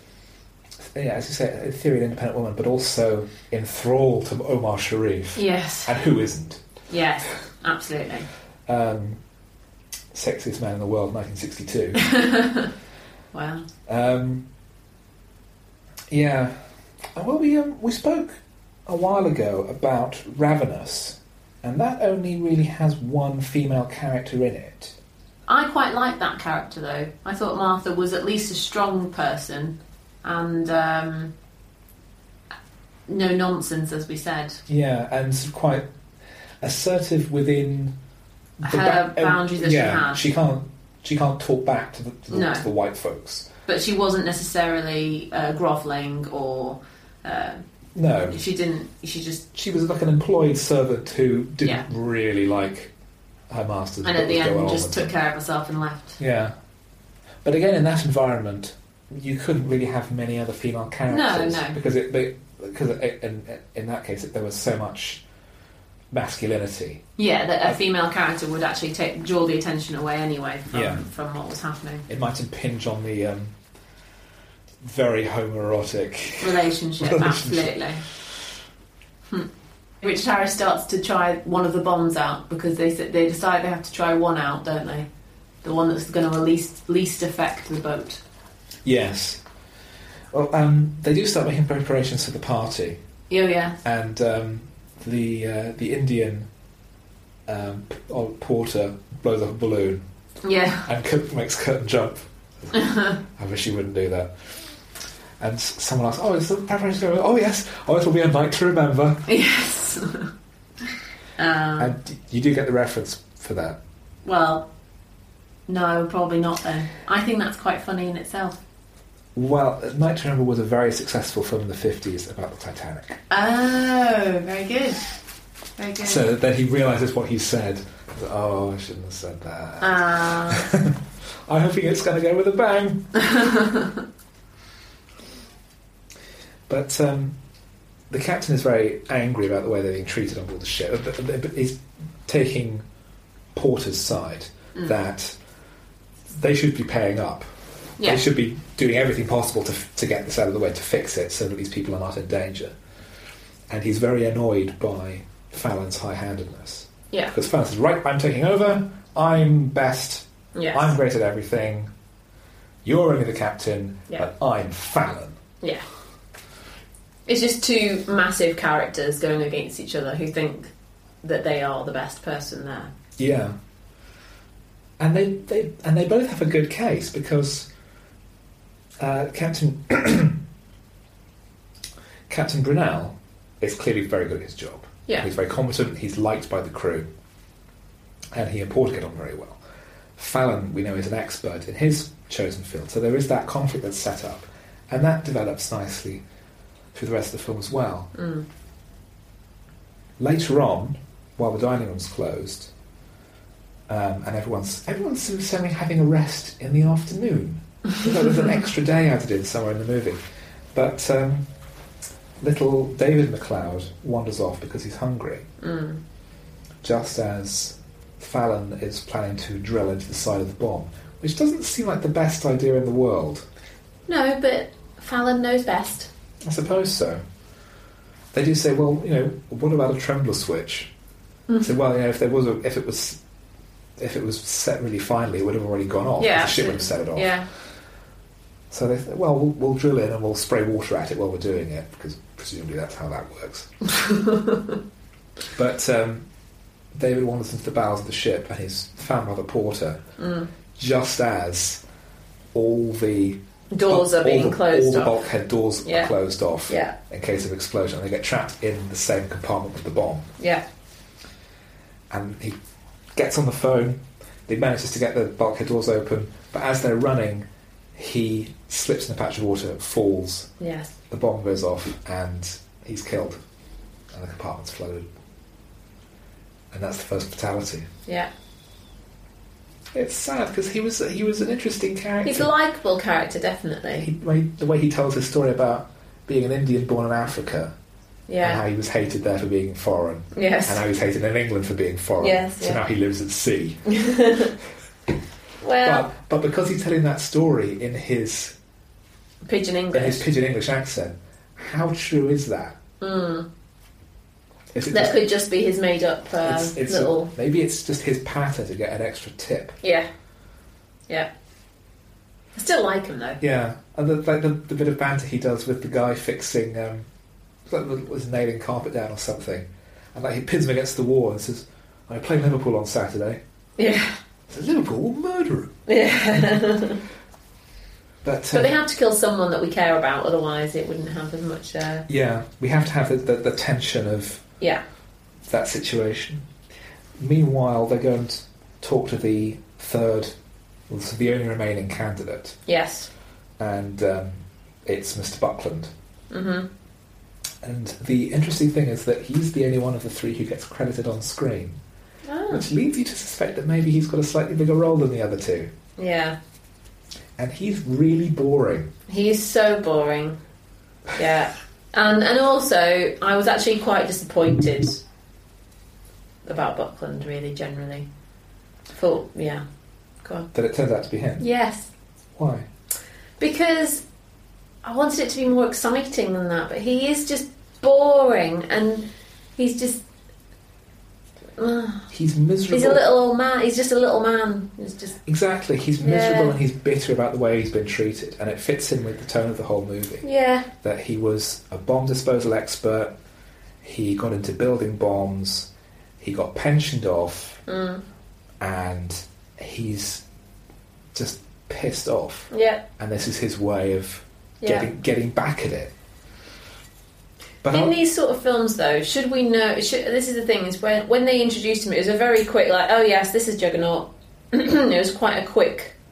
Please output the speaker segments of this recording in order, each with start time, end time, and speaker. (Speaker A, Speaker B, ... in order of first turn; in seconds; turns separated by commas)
Speaker A: 0.8-6.6, Speaker B: 5.4-5.9, Speaker B: 6.9-8.3, Speaker A: 8.7-9.2, Speaker A: 10.1-12.1, Speaker B: 12.0-12.7, Speaker B: 13.3-13.7, Speaker A: 13.9-14.4, Speaker A: 16.1-16.5, Speaker A: 17.1-24.9, Speaker B: 25.5-31.3, Speaker B: 33.1-34.6, Speaker A: 34.7-35.9, Speaker A: 36.6-38.0, Speaker A: 38.6-43.5, Speaker B: 38.6-40.2, Speaker B: 42.3-42.7, Speaker B: 43.7-47.6, Speaker A: 48.0-48.4, Speaker B: 48.3-49.5, Speaker A: 49.5-52.9, Speaker A: 53.5-55.1, Speaker B: 54.0-56.2, Speaker A: 56.2-56.5, Speaker A: 57.4-65.2, Speaker B: 61.1-61.8, Speaker A: 66.1-67.0, Speaker B: 67.2-72.0, Speaker A: 70.7-71.0, Speaker A: 72.1-73.5, Speaker A: 74.8-77.8, Speaker B: 76.4-78.0, Speaker B: 80.0-85.1, Speaker B: 85.6-88.2, Speaker A: 88.8-89.4, Speaker A: 90.3-93.0, Speaker B: 93.3-93.8, Speaker A: 93.8-96.5, Speaker A: 97.5-100.0, Speaker B: 100.4-100.9, Speaker A: 100.8-104.3, Speaker B: 102.7-103.2, Speaker A: 105.4-109.3, Speaker B: 109.3-110.3, Speaker B: 111.4-112.0, Speaker A: 111.8-113.8, Speaker B: 114.2-114.7, Speaker B: 115.7-118.6, Speaker A: 119.3-123.2, Speaker B: 123.3-125.0, Speaker B: 125.8-126.3, Speaker A: 126.0-133.1, Speaker B: 129.8-130.7, Speaker B: 133.2-134.0, Speaker A: 136.7-137.4, Speaker A: 138.1-142.8, Speaker A: 143.5-145.4, Speaker A: 146.3-147.5, Speaker A: 148.0-152.7, Speaker A: 153.7-161.9, Speaker B: 160.6-160.9, Speaker A: 162.8-165.4, Speaker B: 167.3-170.7, Speaker B: 171.2-172.9, Speaker A: 173.2-173.6, Speaker A: 175.0-177.7, Speaker A: 179.0-180.4, Speaker A: 182.3-187.1, Speaker A: 188.3-189.6, Speaker A: 190.2-196.2, Speaker A: 196.9-198.1, Speaker B: 198.1-198.4, Speaker A: 200.2-202.7, Speaker A: 203.9-210.2, Speaker A: 210.7-211.5, Speaker A: 212.4-215.5, Speaker B: 215.6-216.0, Speaker A: 216.8-223.4, Speaker B: 224.1-226.1, Speaker A: 226.4-227.2, Speaker A: 228.3-230.9, Speaker B: 231.5-231.7, Speaker A: 231.6-233.2, Speaker A: 234.0-237.4, Speaker B: 236.2-237.5, Speaker A: 238.7-243.7, Speaker B: 243.8-244.8, Speaker A: 245.6-246.3, Speaker A: 246.9-250.0, Speaker B: 250.2-250.5, Speaker A: 250.8-251.8, Speaker A: 252.5-260.3, Speaker B: 253.7-255.2, Speaker B: 255.8-256.1, Speaker B: 256.7-256.9, Speaker A: 262.1-262.6, Speaker A: 263.1-270.5, Speaker B: 270.6-270.9, Speaker A: 271.1-273.4, Speaker A: 274.1-275.1, Speaker A: 276.7-277.9, Speaker A: 279.9-282.5, Speaker B: 282.2-284.1, Speaker A: 284.0-287.7, Speaker B: 288.3-288.6, Speaker A: 288.4-293.9, Speaker B: 290.3-290.8, Speaker B: 292.2-292.8, Speaker B: 293.9-294.5, Speaker B: 295.6-296.1, Speaker A: 295.8-298.6, Speaker B: 299.4-300.2, Speaker A: 299.9-302.8, Speaker B: 303.0-303.5, Speaker A: 304.7-305.2, Speaker B: 304.9-307.3, Speaker A: 306.4-309.8, Speaker B: 309.8-310.1, Speaker B: 312.6-313.4, Speaker A: 313.4-317.1, Speaker A: 317.7-323.4, Speaker B: 323.8-324.2, Speaker A: 324.5-325.8, Speaker B: 325.9-327.0, Speaker A: 326.3-326.6, Speaker A: 328.2-328.8, Speaker B: 328.5-332.1, Speaker A: 332.1-334.4, Speaker A: 335.5-336.4, Speaker A: 337.2-340.3, Speaker A: 340.9-342.6, Speaker B: 342.7-343.1, Speaker A: 343.6-345.9, Speaker B: 346.3-346.7, Speaker A: 347.6-351.8, Speaker B: 352.2-352.7, Speaker A: 352.5-355.7, Speaker B: 356.0-356.4, Speaker A: 357.4-358.9, Speaker B: 359.1-360.4, Speaker B: 361.1-365.0, Speaker B: 366.4-368.1, Speaker B: 368.9-369.6, Speaker A: 370.5-371.4, Speaker B: 371.4-371.9, Speaker A: 372.4-372.7, Speaker B: 373.4-374.0, Speaker B: 374.8-380.0, Speaker B: 381.6-382.1, Speaker A: 382.1-383.0, Speaker B: 382.7-385.2, Speaker A: 385.3-390.2, Speaker B: 386.0-386.6, Speaker B: 390.2-390.7, Speaker A: 390.8-393.2, Speaker A: 393.8-395.7, Speaker A: 396.2-397.6, Speaker B: 397.7-398.0, Speaker A: 398.6-400.2, Speaker A: 401.1-405.9, Speaker B: 402.5-402.8, Speaker B: 404.6-404.9, Speaker A: 407.6-407.9, Speaker B: 407.7-415.9